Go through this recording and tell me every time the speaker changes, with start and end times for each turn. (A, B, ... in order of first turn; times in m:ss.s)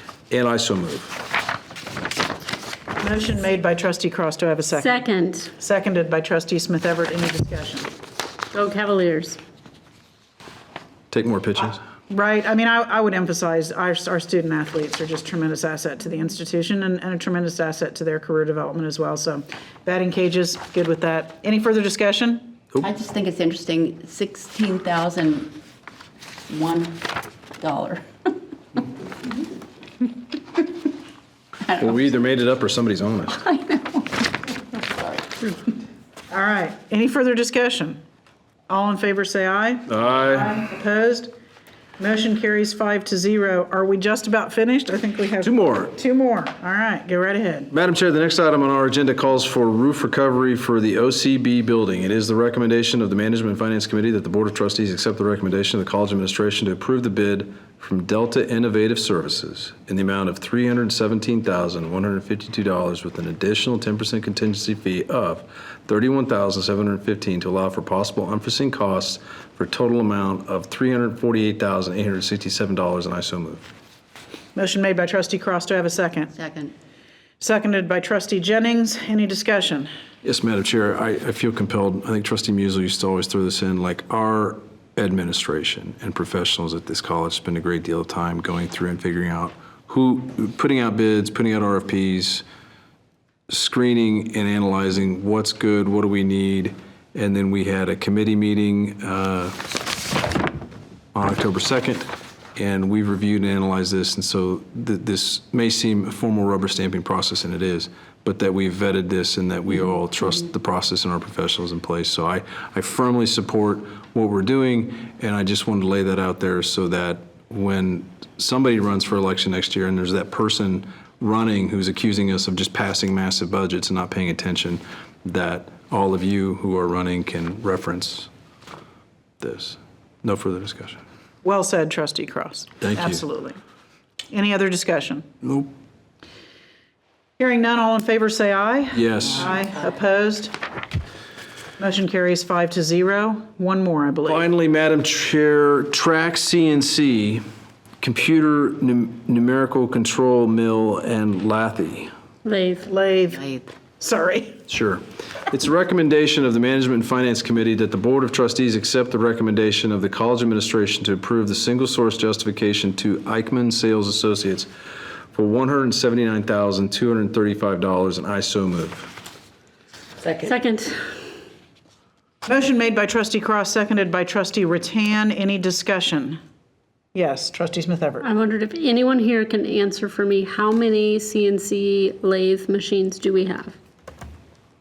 0:00.3-0:01.3 A
0:03.0-0:05.0 B
0:04.7-0:05.5 C
0:05.6-0:07.9 B
0:08.5-0:09.4 C
0:11.1-0:11.8 A
0:12.1-0:22.6 B
0:22.8-0:25.5 D
0:26.4-0:28.0 D
0:31.8-0:33.4 A
0:33.4-0:35.5 D
0:36.3-0:38.0 B
0:38.7-0:41.3 B
0:39.9-0:40.5 A
0:42.0-0:47.7 B
0:45.4-0:45.9 A
0:47.7-1:13.6 A
1:14.5-1:16.3 B
1:16.3-1:16.7 D
1:17.4-1:19.9 B
1:20.2-1:32.4 A
1:33.5-1:39.6 A
1:41.1-2:08.3 A
2:09.4-2:11.0 A
2:11.4-2:13.6 B
2:12.8-2:13.2 A
2:14.3-2:15.2 B
2:15.4-2:15.7 A
2:17.4-2:20.6 B
2:18.9-2:19.5 A
2:21.8-2:24.4 B
2:24.2-2:27.4 A
2:28.0-2:32.1 A
2:32.4-2:32.9 C
2:32.8-2:34.6 B
2:34.7-2:44.7 A
2:45.3-2:49.1 A
2:50.2-2:50.5 D
2:50.4-2:51.2 C
2:52.4-2:56.4 B
2:57.1-2:58.3 B
2:58.2-3:03.8 C